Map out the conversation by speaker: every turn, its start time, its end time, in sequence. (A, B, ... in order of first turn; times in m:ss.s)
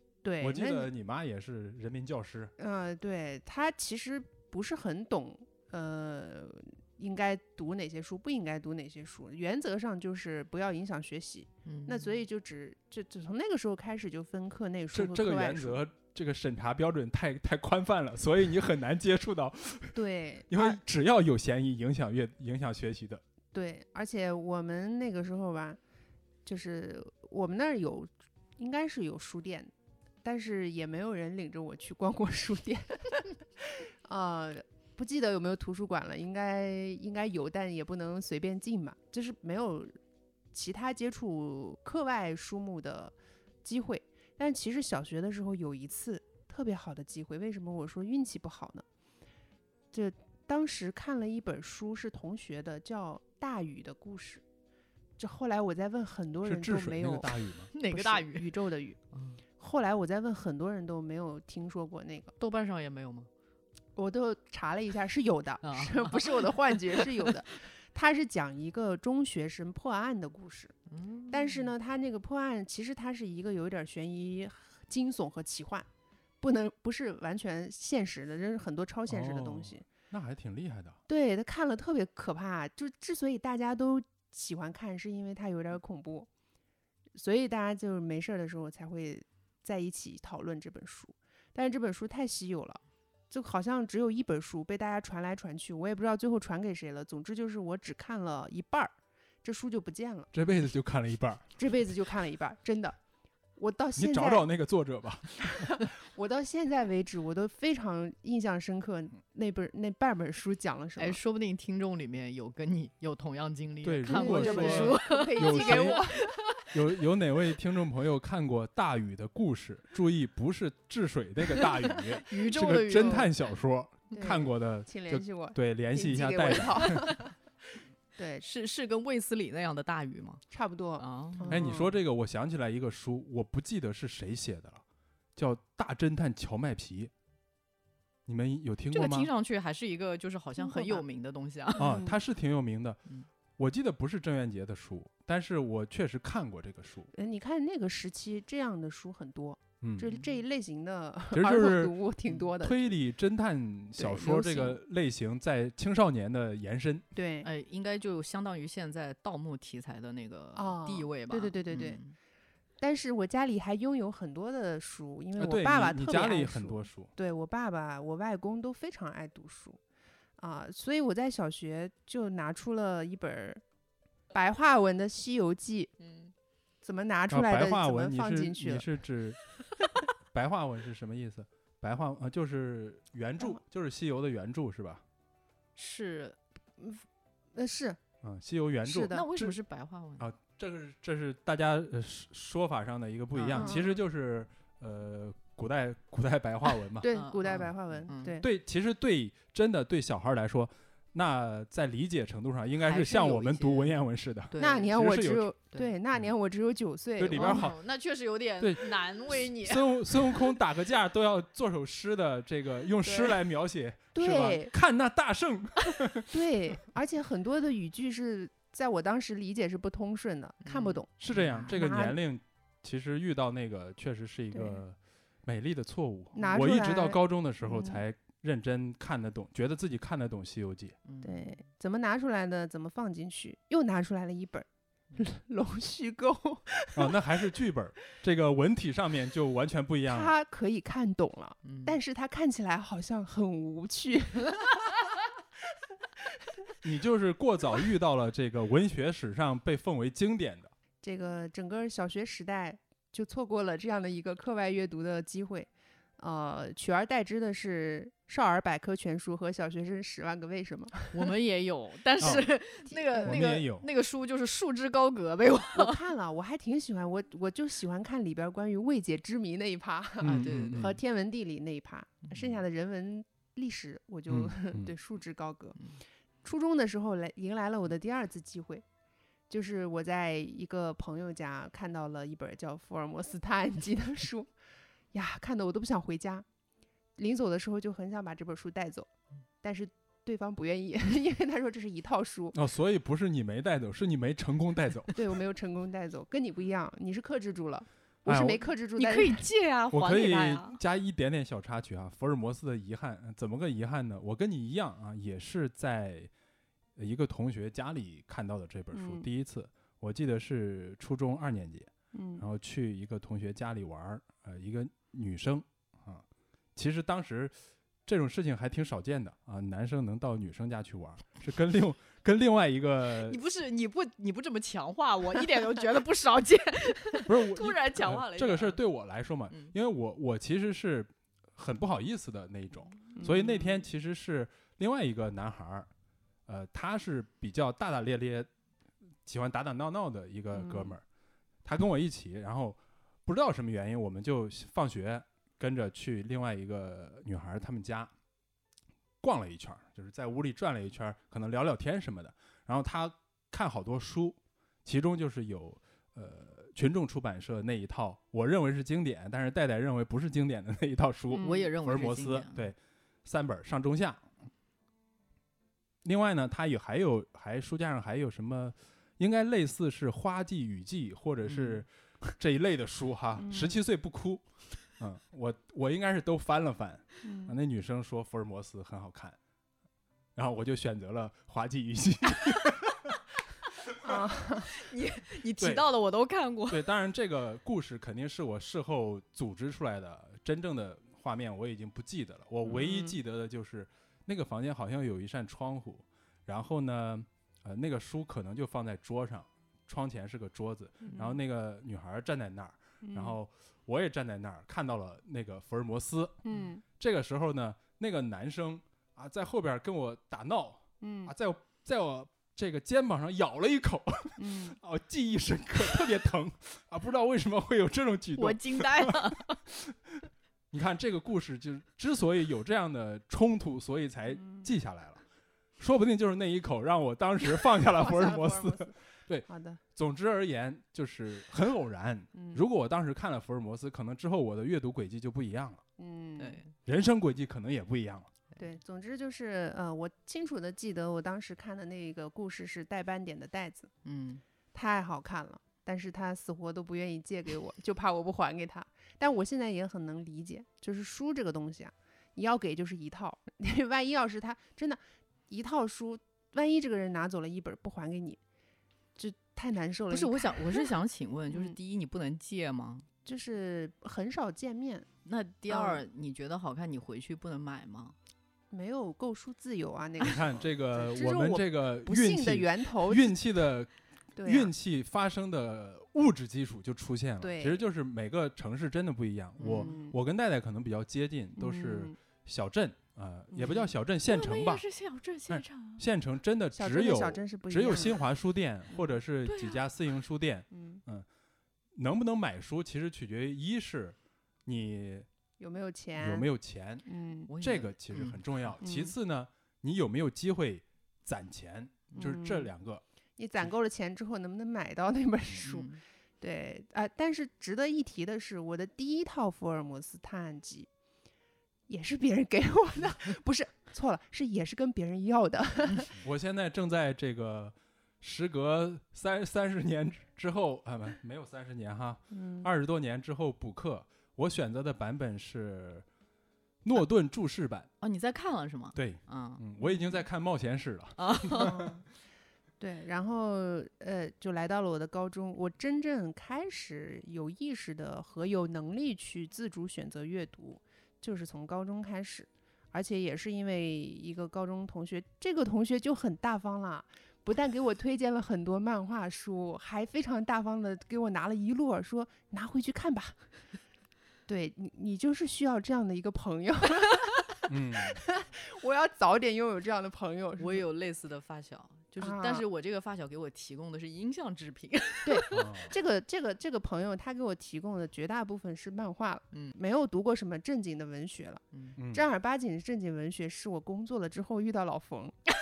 0:00.2-0:00.9 A
0:00.4-0:02.5 B
0:02.6-0:15.8 A
0:11.6-0:12.2 C
0:14.9-0:23.2 B
0:20.0-0:20.8 A
0:23.5-0:25.8 A
0:26.4-0:29.7 A
0:30.2-0:40.0 A
0:40.5-0:48.9 A
0:49.9-0:54.4 A
0:55.2-0:59.0 A
0:56.4-0:57.7 B
0:57.7-0:58.6 C
0:59.1-0:59.4 C
0:59.6-1:02.4 A
1:02.4-1:03.3 C
1:04.0-1:10.8 A
1:05.6-1:07.3 C
1:10.9-1:11.7 C
1:11.3-1:15.9 A
1:16.4-1:19.8 A
1:19.1-1:21.0 B
1:21.1-1:26.3 A
1:27.2-1:38.9 A
1:39.4-1:40.3 A
1:40.3-1:41.4 B
1:41.6-1:43.0 A
1:43.6-1:44.5 A
1:44.0-1:45.9 B
1:45.6-1:51.2 A
1:51.0-1:56.7 C
1:53.8-1:56.1 B
1:54.1-1:56.2 A
1:56.7-2:07.1 B
2:02.2-2:03.3 C
2:04.1-2:08.5 A
2:08.4-2:10.4 C
2:10.5-2:11.9 A
2:11.0-2:11.6 C
2:11.5-2:14.8 B
2:15.4-2:17.1 B
2:18.3-2:19.3 B
2:18.9-2:21.9 C
2:20.6-2:21.0 A
2:21.8-2:22.1 A
2:21.8-2:23.0 B
2:23.6-2:27.1 B
2:27.1-2:32.9 A
2:29.8-2:30.1 B
2:31.3-2:32.0 B
2:32.6-2:37.0 B
2:34.0-2:34.8 A
2:37.1-2:37.5 A
2:37.4-2:42.2 C
2:40.6-2:42.0 A
2:42.8-2:49.8 A
2:45.4-2:47.1 B
2:50.4-2:53.6 A
2:54.3-2:55.9 A
2:56.0-2:56.3 C
2:56.8-2:58.9 A
2:57.3-2:59.5 B
3:00.3-3:05.0 B
3:05.8-3:06.4 C
3:06.8-3:08.0 A
3:08.2-3:09.6 B
3:08.8-3:09.2 A
3:09.1-3:10.3 C
3:10.2-3:17.1 B
3:13.3-3:13.8 C
3:13.6-3:14.0 A
3:17.0-3:18.5 A
3:17.1-3:18.4 C
3:18.4-3:25.5 B
3:22.8-3:24.9 C
3:24.6-3:27.7 A
3:27.2-3:27.8 B
3:27.3-3:30.4 C
3:28.6-3:36.4 B
3:33.0-3:33.4 C
3:34.2-3:34.7 A
3:36.3-3:42.2 A
3:40.6-3:41.7 C
3:41.2-3:51.0 B
3:44.5-3:44.8 A
3:46.4-3:48.0 A
3:51.1-3:51.6 C
3:51.2-3:57.6 A
3:57.0-4:00.3 B
4:00.1-4:05.0 A
4:01.6-4:02.0 C
4:06.8-4:10.7 B
4:11.0-4:21.3 A
4:21.1-4:26.0 C
4:22.2-4:22.5 B
4:23.1-4:23.4 A
4:23.2-4:23.9 B
4:25.7-4:35.9 A
4:30.2-4:31.0 B
4:30.2-4:30.9 C
4:34.3-4:34.9 B
4:36.4-4:38.9 A
4:39.5-4:44.5 A
4:45.1-4:46.5 A
4:47.2-4:49.1 A
4:49.6-4:52.6 A
4:52.5-4:55.2 B
4:55.2-4:59.4 A
4:58.3-4:58.7 B
4:59.0-5:00.8 C
4:59.9-5:06.3 B
5:07.0-5:16.2 B
5:08.9-5:09.3 A
5:12.1-5:12.4 A
5:16.8-5:17.5 B
5:18.1-5:23.4 B
5:23.1-5:28.8 C
5:27.3-5:35.9 B
5:33.2-5:33.8 C
5:36.5-5:38.5 B
5:39.3-5:41.0 B
5:40.6-5:41.0 A
5:41.6-5:48.1 B
5:49.2-6:04.3 B
6:01.4-6:02.7 C
6:06.0-6:19.4 B
6:11.4-6:11.8 C
6:13.4-6:13.7 A
6:17.2-6:17.6 A
6:20.4-6:23.1 B
6:24.0-6:24.7 A
6:24.7-6:26.8 C
6:26.7-6:46.4 B
6:32.7-6:33.2 A
6:41.1-6:41.4 A
6:43.0-6:43.4 A
6:46.4-6:46.8 A
6:47.0-7:05.2 B
6:51.0-6:51.3 A
6:54.4-6:54.8 A
6:58.4-6:59.6 C
7:05.8-7:15.8 B
7:07.8-7:08.9 A
7:09.5-7:09.8 A
7:12.4-7:12.6 A
7:16.0-7:16.6 A
7:16.4-7:16.7 C
7:16.8-7:18.3 B
7:18.6-7:23.9 A
7:24.0-7:24.4 C
7:24.7-7:38.4 A
7:39.2-7:40.9 A
7:40.1-7:43.1 C
7:43.2-7:45.1 A
7:45.3-7:48.2 C
7:45.7-7:46.0 A
7:48.7-7:53.4 A
7:50.2-8:04.8 B
7:54.4-7:54.7 A
7:57.4-7:57.8 A
7:59.6-7:59.9 C
7:59.6-8:00.2 A
8:01.6-8:02.2 A
8:03.5-8:03.8 A
8:03.7-8:06.0 C
8:05.5-8:11.3 B
8:06.8-8:08.2 A
8:09.5-8:09.8 C
8:12.0-8:15.3 B
8:15.6-8:16.5 A
8:16.2-8:17.0 B
8:17.1-8:17.5 A
8:17.5-8:18.4 C
8:17.6-8:23.0 B
8:18.8-8:19.2 A
8:22.2-8:22.7 A
8:23.4-8:30.9 A
8:25.6-8:26.0 C
8:31.9-8:36.2 A
8:36.2-8:46.0 B
8:42.3-8:42.7 A
8:46.8-8:47.9 B
8:48.0-8:49.6 C
8:49.0-8:51.9 B
8:51.2-8:51.7 C
8:51.5-8:52.1 A
8:52.8-9:13.4 A
9:14.5-9:20.8 A
9:17.7-9:18.3 B
9:20.6-9:25.7 C
9:22.2-9:22.6 A
9:25.2-9:35.4 A
9:25.5-9:25.9 B
9:31.7-9:32.0 C
9:32.0-9:32.3 B